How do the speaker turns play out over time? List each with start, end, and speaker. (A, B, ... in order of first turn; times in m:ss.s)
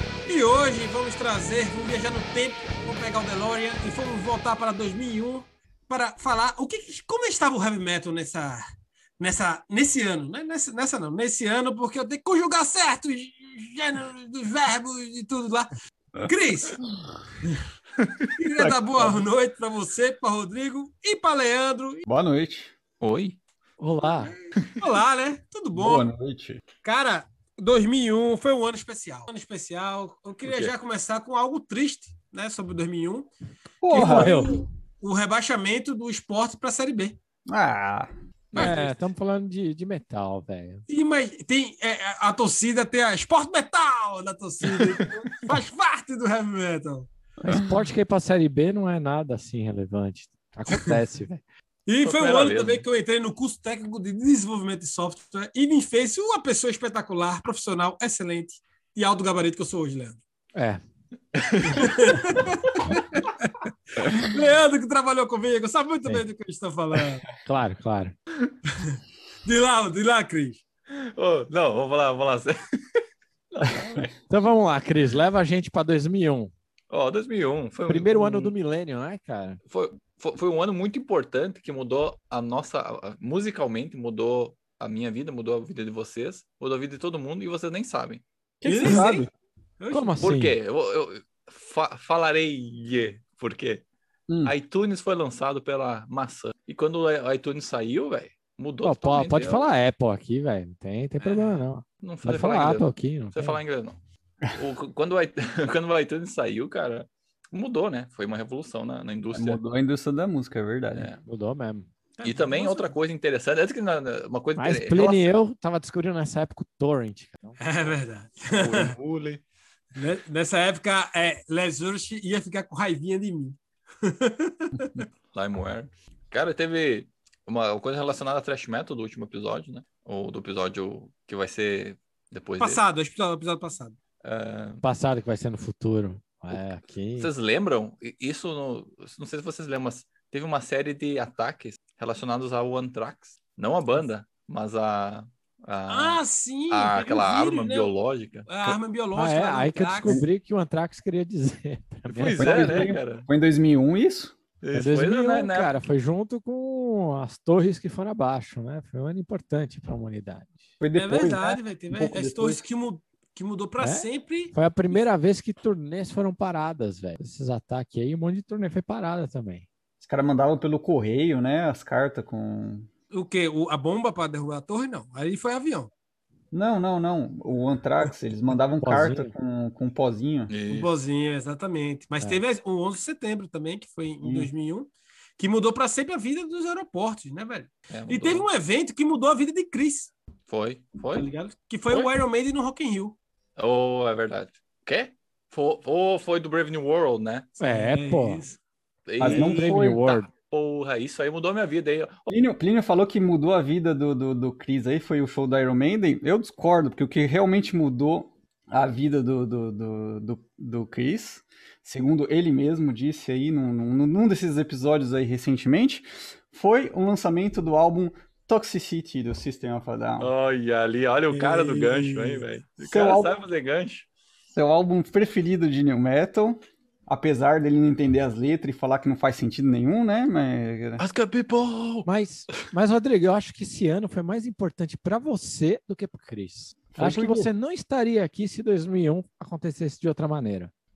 0:00.2-0:08.6 A
0:09.2-0:16.8 A
0:18.4-0:22.0 A
0:18.6-0:19.2 B
0:22.0-0:22.7 B
0:23.0-0:23.4 C
0:23.8-0:24.3 D
0:24.8-0:26.1 A
0:25.7-0:26.6 B
0:26.8-0:33.3 A
0:30.4-0:30.7 C
0:33.8-0:34.4 B
0:33.9-0:37.2 A
0:33.9-0:34.6 D
0:37.5-0:38.1 B
0:38.5-0:38.9 C
0:38.5-0:40.8 D
0:40.9-0:47.1 A
0:44.6-0:45.0 C
0:47.4-0:47.7 B
0:47.5-0:51.4 D
0:50.7-0:51.0 A
0:51.9-1:00.2 A
0:52.0-0:52.8 C
1:00.6-1:00.8 D
1:01.3-1:02.2 C
1:01.6-1:07.2 A
1:07.4-1:08.1 D
1:08.7-1:10.6 A
1:10.9-1:12.6 C
1:13.5-1:14.1 C
1:13.7-1:14.0 B
1:14.3-1:16.5 D
1:16.9-1:18.5 C
1:17.9-1:19.6 D
1:19.7-1:28.2 C
1:28.6-1:29.3 B
1:28.6-1:30.2 A
1:29.9-1:30.6 D
1:30.2-1:33.8 C
1:34.3-1:34.5 B
1:34.4-1:39.7 C
1:38.8-1:43.6 D
1:41.2-1:41.6 A
1:42.0-1:44.0 C
1:44.5-1:49.6 C
1:49.3-1:51.1 B
1:50.9-1:51.2 C
1:51.2-1:51.9 D
1:52.2-1:52.9 A
1:52.2-1:55.3 C
1:54.6-1:57.6 D
1:57.6-1:58.9 A
1:58.5-1:59.4 C
1:59.9-2:05.0 A
2:05.3-2:12.8 C
2:12.6-2:14.0 A
2:14.2-2:14.8 C
2:14.8-2:17.3 D
2:17.2-2:28.8 C
2:25.9-2:27.9 A
2:28.5-2:30.2 A
2:29.1-2:32.9 D
2:32.1-2:33.3 C
2:32.4-2:34.4 B
2:34.6-2:35.7 C
2:34.7-2:40.6 D
2:40.8-2:42.6 B
2:40.9-2:44.5 A
2:43.8-2:49.6 D
2:50.0-2:52.9 B
2:53.1-2:55.9 A
2:56.5-3:00.5 B
2:58.8-2:59.3 D
3:00.5-3:00.9 C
3:00.7-3:10.1 A
3:04.2-3:04.5 B
3:07.9-3:08.5 C
3:10.5-3:11.3 C
3:11.1-3:13.2 A
3:13.6-3:17.5 C
3:17.6-3:18.4 D
3:17.6-3:18.6 A
3:19.1-3:22.3 C
3:19.2-3:20.0 B
3:19.2-3:20.3 D
3:22.3-3:40.3 B
3:40.2-3:44.1 C
3:41.3-3:42.4 A
3:42.8-3:43.4 B
3:44.5-3:51.0 B
3:51.0-3:52.1 C
3:52.0-4:00.7 D
3:56.9-3:57.5 B